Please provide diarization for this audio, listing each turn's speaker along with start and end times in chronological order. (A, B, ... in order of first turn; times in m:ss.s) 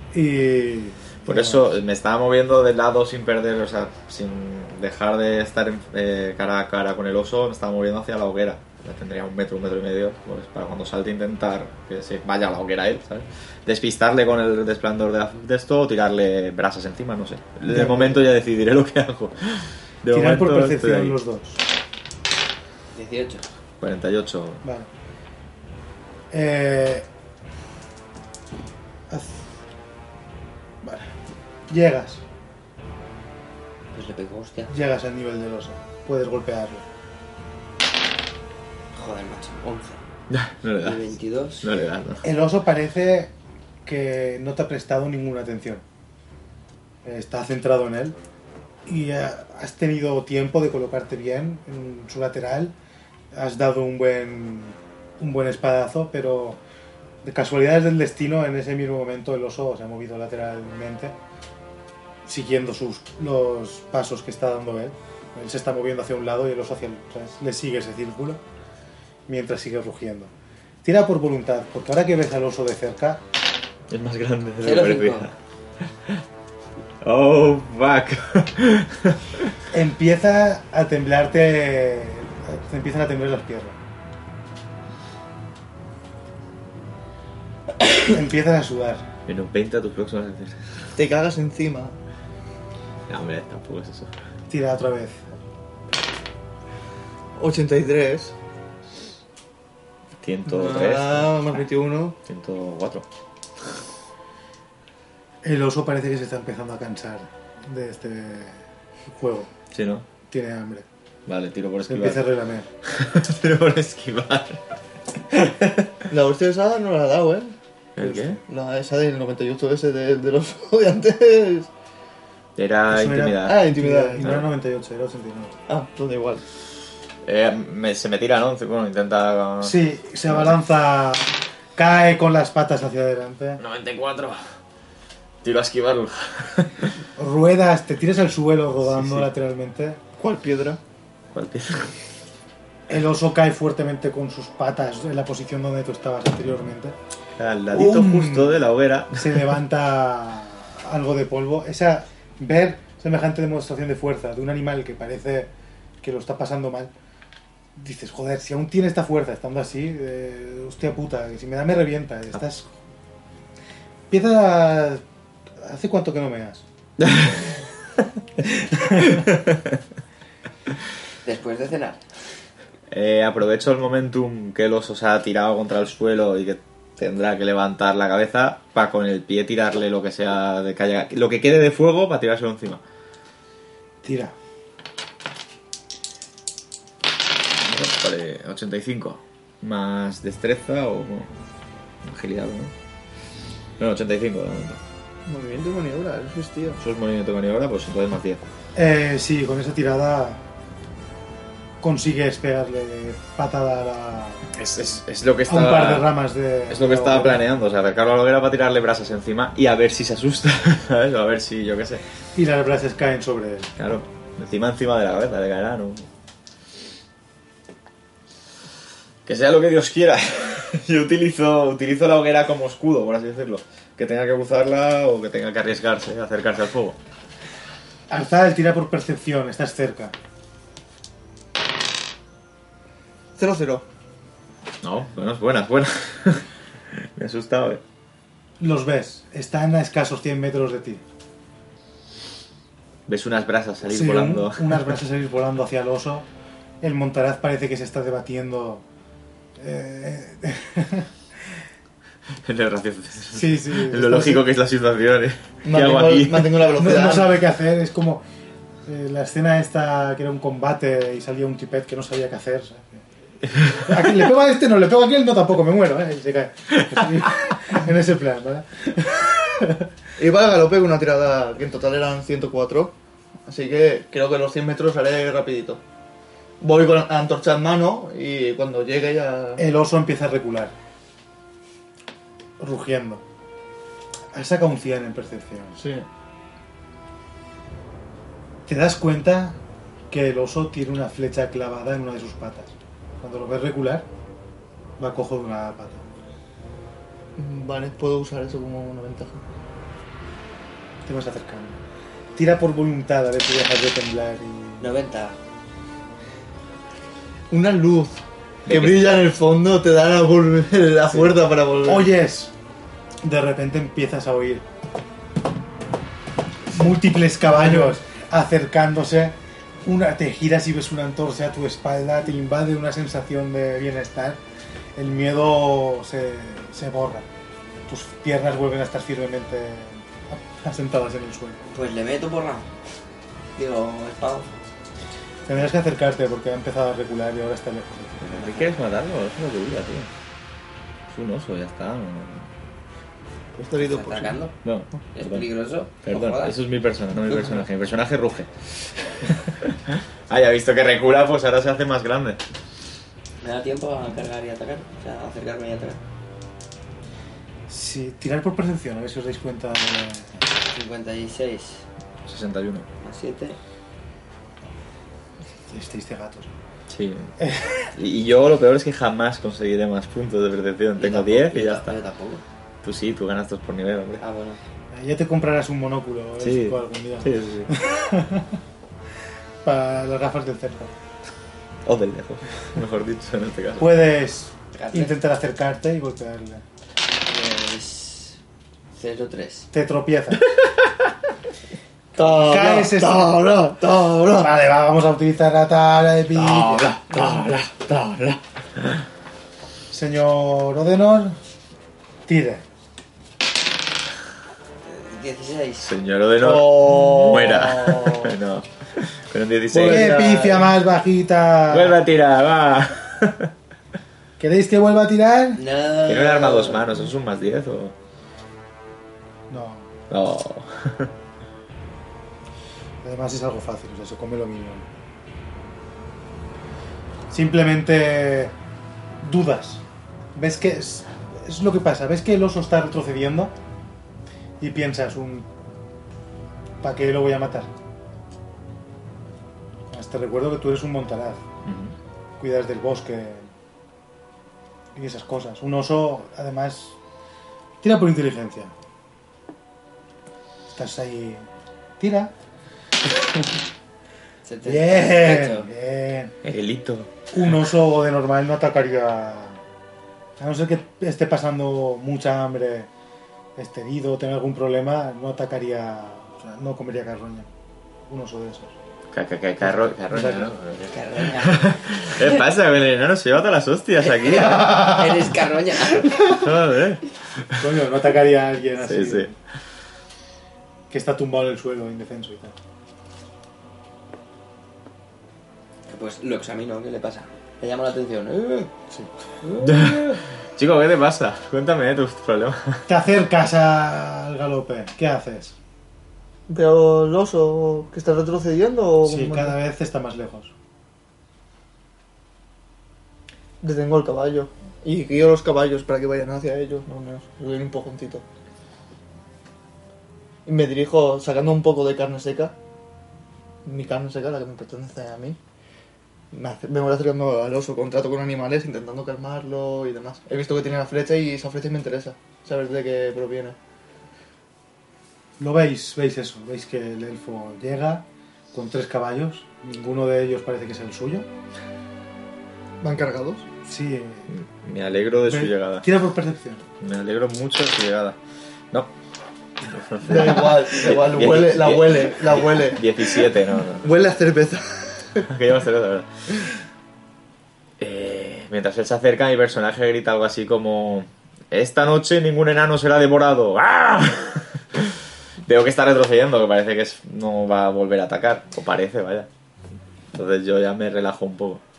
0:00.1-0:01.7 A
0:01.2-0:21.2 B
0:17.7-0:18.2 A
0:20.1-0:21.6 A
0:22.9-0:23.4 C
0:23.8-0:24.6 B
0:24.6-0:24.9 A
0:26.3-0:27.1 A
0:29.1-0:29.5 A
0:30.8-0:31.2 A
0:31.7-0:32.2 A
0:33.9-0:34.7 C
0:34.7-0:36.8 A
0:38.9-0:40.0 C
0:40.3-0:41.0 B
0:40.8-0:41.7 C
0:41.6-0:42.2 B
0:42.2-0:43.3 A
0:43.8-0:45.8 A
0:47.0-0:48.2 A
0:48.8-0:52.7 A
0:53.3-0:56.6 A
0:57.2-1:01.2 A
1:02.2-1:08.4 A
1:09.3-1:10.3 A
1:10.8-1:13.2 A
1:13.9-1:15.3 B
1:14.6-1:15.3 C
1:17.0-1:19.5 B
1:19.7-1:23.8 A
1:27.8-1:29.0 A
1:29.3-1:30.9 B
1:30.9-1:32.0 D
1:33.1-1:34.1 B
1:34.5-1:35.3 A
1:37.4-1:38.3 D
1:40.2-1:41.6 B
1:40.4-1:42.2 D
1:42.2-1:43.0 B
1:45.4-1:49.5 A
1:49.7-1:50.0 B
1:50.3-1:50.8 A
1:51.3-1:52.3 B
1:51.9-1:52.7 A
1:52.8-1:54.6 B
1:55.3-1:55.9 B
1:56.1-2:01.7 D
1:58.0-1:58.4 B
2:02.6-2:03.6 B
2:02.9-2:05.6 A
2:03.4-2:04.2 D
2:04.2-2:04.4 B
2:05.7-2:06.4 D
2:07.2-2:10.6 B
2:09.6-2:13.6 A
2:13.6-2:14.4 B
2:15.4-2:16.9 B
2:17.2-2:20.0 A
2:18.9-2:19.3 B
2:20.2-2:20.8 D
2:21.3-2:21.9 B
2:22.9-2:27.0 A
2:27.4-2:29.5 B
2:27.7-2:28.6 A
2:29.1-2:35.5 A
2:36.0-2:36.9 A
2:37.8-2:42.7 A
2:44.1-2:45.0 A
2:45.6-2:46.6 A
2:47.0-2:47.4 B
2:48.4-2:49.6 B
2:51.2-2:52.0 C
2:52.9-3:02.8 B
3:04.0-3:04.3 A
3:07.6-3:11.3 B
3:12.0-3:12.7 B
3:13.8-3:14.8 B
3:15.3-3:16.8 D
3:16.8-3:18.4 B
3:18.7-3:20.4 A
3:21.8-3:24.5 A
3:24.5-3:32.0 B
3:25.5-3:27.4 A
3:32.3-3:33.7 A
3:33.8-3:36.1 B
3:39.2-3:47.0 B
3:48.1-3:50.1 A
3:53.4-3:53.8 D
3:54.8-3:57.8 B
3:58.6-4:01.0 A
4:03.1-4:04.9 B
4:03.9-4:06.3 A
4:06.8-4:08.8 A
4:09.6-4:11.1 A
4:12.4-4:16.7 B
4:13.3-4:14.4 A
4:15.6-4:17.3 D
4:16.8-4:18.2 A
4:18.8-4:23.0 A
4:23.7-4:29.9 A
4:30.2-4:32.9 D
4:33.5-4:35.8 D
4:36.6-4:39.6 D
4:39.6-4:40.7 A
4:42.6-4:43.2 A
4:44.3-4:45.8 A
4:45.8-4:46.0 D
4:48.7-4:49.6 A
4:50.1-4:54.1 A
4:55.0-4:56.0 A
4:57.4-4:59.4 D
5:01.0-5:01.8 A
5:02.4-5:04.9 A
5:04.8-5:05.4 C
5:07.5-5:12.1 D
5:08.7-5:09.1 B
5:11.8-5:12.5 A
5:13.2-5:14.6 A
5:16.7-5:24.4 A
5:17.6-5:17.9 D
5:25.0-5:27.3 A
5:27.9-5:31.6 A
5:31.7-5:32.7 C
5:33.6-5:34.5 C
5:35.5-5:38.6 A
5:38.2-5:40.1 B
5:41.1-5:42.5 B
5:43.5-5:44.4 D
5:43.7-5:44.6 C
5:44.6-5:45.5 B
5:45.1-5:46.6 C
5:46.0-5:48.5 B
5:49.1-5:52.4 B
5:53.4-5:56.0 C
5:57.7-6:00.4 A
6:00.7-6:01.8 C
6:02.2-6:02.9 B
6:03.0-6:03.6 C
6:05.7-6:06.5 A
6:06.9-6:07.3 B
6:07.4-6:07.9 A
6:07.9-6:11.9 B
6:11.0-6:12.4 C
6:12.8-6:14.2 B
6:14.2-6:14.6 C
6:14.9-6:18.6 A
6:16.4-6:17.7 B
6:19.6-6:20.9 A
6:21.8-6:24.0 B
6:23.8-6:26.6 A
6:24.7-6:25.1 C
6:27.2-6:28.4 C
6:28.9-6:29.7 C
6:29.7-6:30.4 A
6:32.1-6:34.5 D
6:32.3-6:33.3 A
6:34.3-6:37.0 A
6:36.3-6:39.0 B
6:39.9-6:41.4 A
6:42.2-6:42.6 A
6:44.8-6:45.9 C
6:45.8-6:50.3 B
6:46.4-6:48.4 D
6:49.7-6:50.7 D
6:49.8-6:52.0 A
6:51.7-6:53.5 B
6:54.4-6:55.6 A
6:55.6-6:57.0 C
6:56.0-6:57.9 B
6:59.5-6:59.9 A
7:00.1-7:01.1 B
7:03.0-7:04.9 A
7:07.3-7:08.5 A
7:09.2-7:09.8 A
7:10.3-7:13.5 A
7:14.6-7:15.5 A
7:16.8-7:17.7 A
7:19.9-7:21.4 A
7:21.6-7:21.9 B
7:22.4-7:23.5 A
7:24.9-7:27.0 A
7:27.8-7:28.7 A
7:30.7-7:31.4 A
7:32.0-7:32.3 A
7:33.0-7:33.5 A
7:34.4-7:35.7 C
7:34.6-7:36.3 A
7:36.4-7:37.1 B
7:37.3-7:39.6 A
7:40.4-7:42.9 A
7:43.6-7:47.5 A
7:48.1-7:48.7 A
7:49.1-7:55.3 B
7:49.6-7:50.5 A
7:50.9-7:52.4 C
7:54.0-7:56.4 C
7:56.0-7:57.7 B
7:57.6-7:59.4 A
7:58.8-7:59.3 B
8:00.9-8:02.6 A
8:05.9-8:08.7 C
8:09.4-8:10.2 C
8:09.6-8:12.8 B
8:12.9-8:15.5 A
8:16.5-8:19.6 D
8:19.0-8:20.5 A
8:23.6-8:28.2 D
8:30.4-8:32.5 D
8:33.6-8:35.4 D
8:36.3-8:43.6 D
8:45.4-8:51.2 A
8:52.8-8:53.5 D
8:53.6-8:54.3 A
8:54.3-8:55.9 B
8:55.3-8:56.6 A
8:56.8-8:58.2 B
8:59.6-9:04.1 B
9:00.0-9:03.3 D
9:03.8-9:05.3 D
9:05.2-9:06.1 B
9:07.8-9:19.3 B
9:20.1-9:21.6 B